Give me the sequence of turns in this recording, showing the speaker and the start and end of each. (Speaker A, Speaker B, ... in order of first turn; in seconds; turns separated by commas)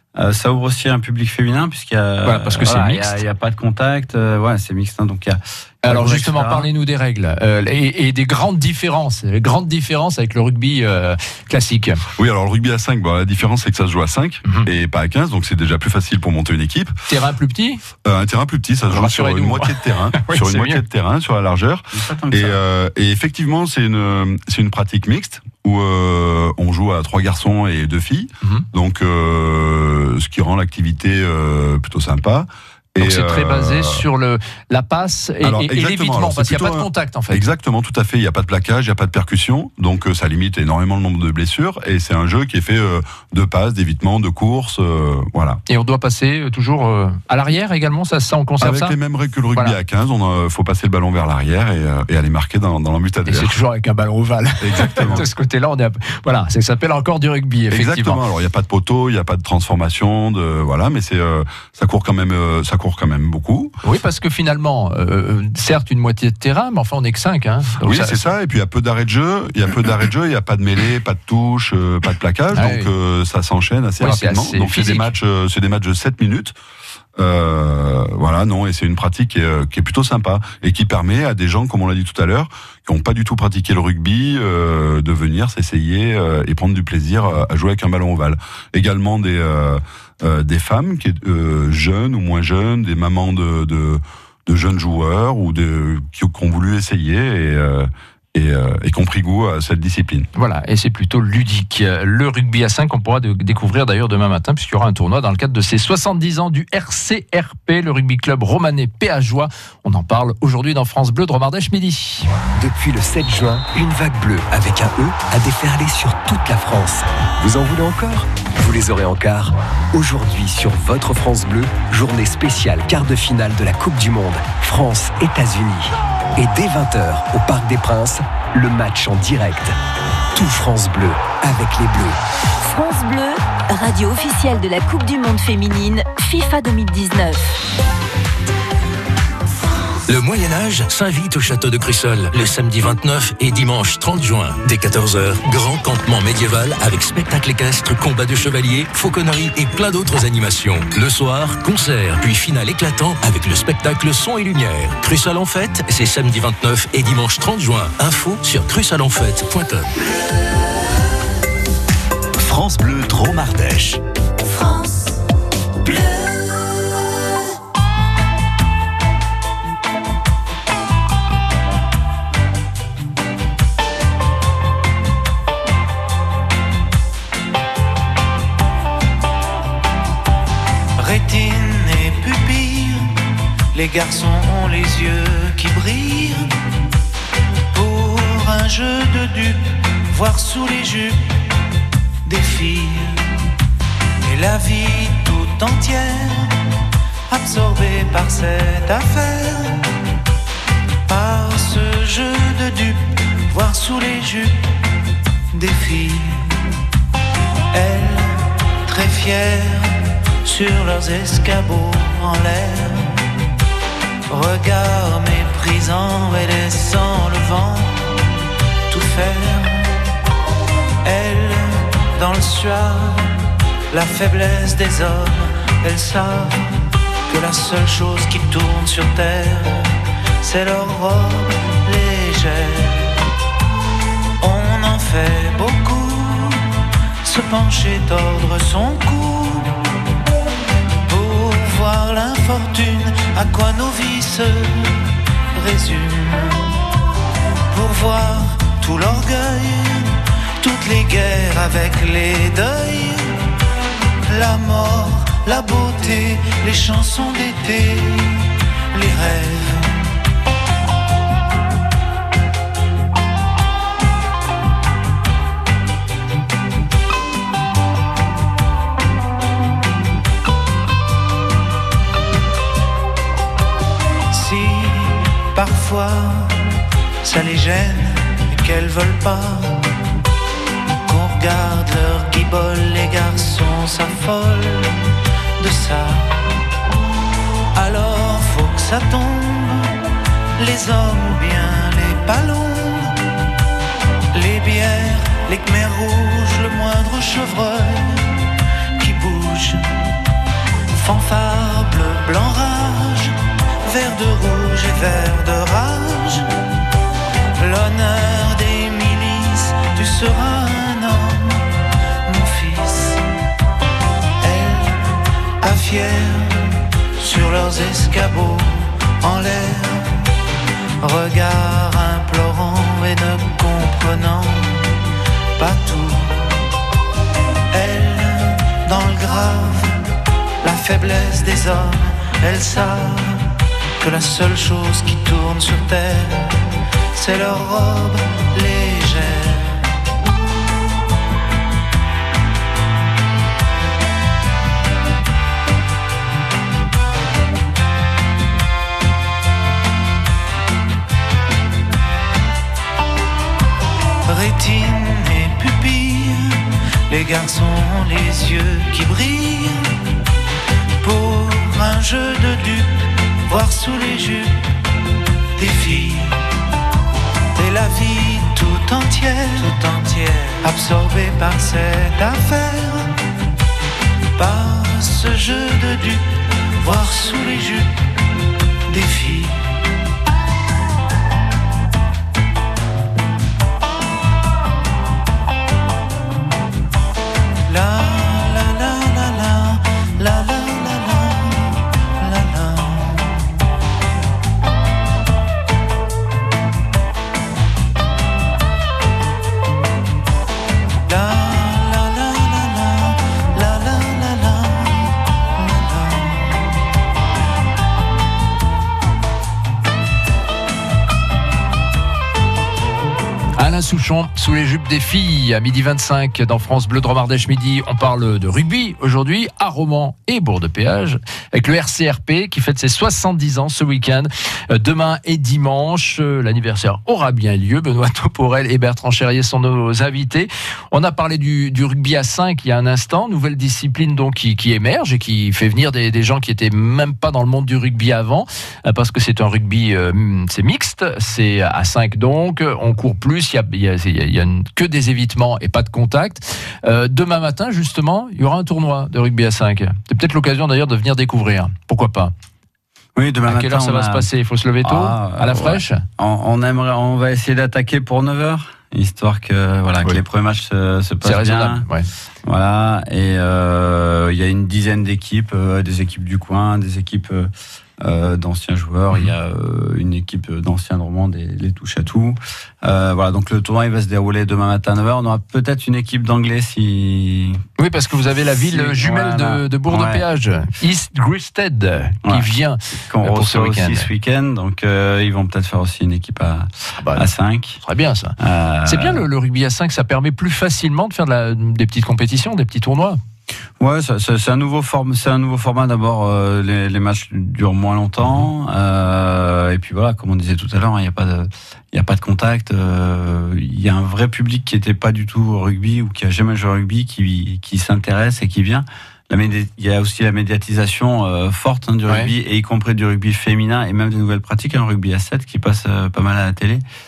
Speaker A: 0.1-6.7, Speaker B: 2.2-3.2, Speaker B: 5.8-12.0, Speaker C: 12.2-16.9, Speaker B: 17.1-17.8, Speaker C: 18.0-34.0, Speaker B: 18.9-20.8, Speaker A: 21.9-22.6, Speaker B: 33.0-37.4, Speaker C: 35.4-45.6, Speaker B: 45.7-49.0, Speaker C: 48.6-53.6, Speaker B: 53.2-58.2, Speaker C: 54.6-55.2, Speaker C: 57.7-63.7, Speaker B: 63.8-68.2, Speaker C: 67.8-76.5, Speaker B: 72.5-72.9, Speaker B: 74.0-75.1, Speaker C: 77.2-100.3, Speaker B: 100.3-112.3, Speaker D: 112.6-129.7, Speaker D: 130.3-132.2, Speaker E: 132.6-137.5, Speaker F: 140.1-159.9, Speaker D: 162.4-164.0, Speaker E: 164.5-164.9, Speaker G: 181.0-186.5, Speaker G: 187.7-191.4, Speaker G: 192.2-193.3, Speaker G: 194.2-196.6, Speaker G: 197.3-199.9, Speaker G: 201.1-204.6, Speaker G: 205.5-206.7, Speaker G: 207.7-213.2, Speaker G: 214.3-218.3, Speaker G: 218.9-220.0, Speaker G: 221.0-223.3, Speaker G: 223.9-233.3, Speaker G: 234.4-236.7, Speaker G: 237.2-239.9, Speaker G: 241.1-246.8, Speaker G: 247.7-253.6, Speaker G: 254.3-260.1, Speaker G: 274.3-279.9, Speaker G: 281.0-286.4, Speaker G: 287.7-289.9, Speaker G: 290.6-293.2, Speaker G: 294.3-300.1, Speaker G: 300.9-306.5, Speaker G: 307.6-311.7, Speaker G: 312.2-313.2, Speaker G: 314.4-320.4, Speaker G: 321.0-325.0, Speaker G: 325.6-326.7, Speaker G: 327.7-330.0, Speaker G: 330.6-339.9, Speaker G: 354.2-360.1, Speaker G: 361.0-364.6, Speaker G: 365.6-366.4, Speaker G: 367.6-373.1, Speaker G: 374.4-377.9, Speaker G: 378.9-379.6, Speaker G: 387.7-393.4, Speaker G: 401.1-406.6, Speaker B: 413.6-452.3, Speaker A: 453.1-454.3, Speaker B: 453.5-456.0, Speaker A: 454.8-461.8, Speaker B: 461.2-462.1, Speaker A: 462.4-477.6, Speaker B: 477.8-484.1, Speaker A: 478.4-480.2, Speaker A: 483.1-487.8, Speaker B: 487.0-493.2, Speaker A: 488.4-489.2, Speaker A: 493.8-516.8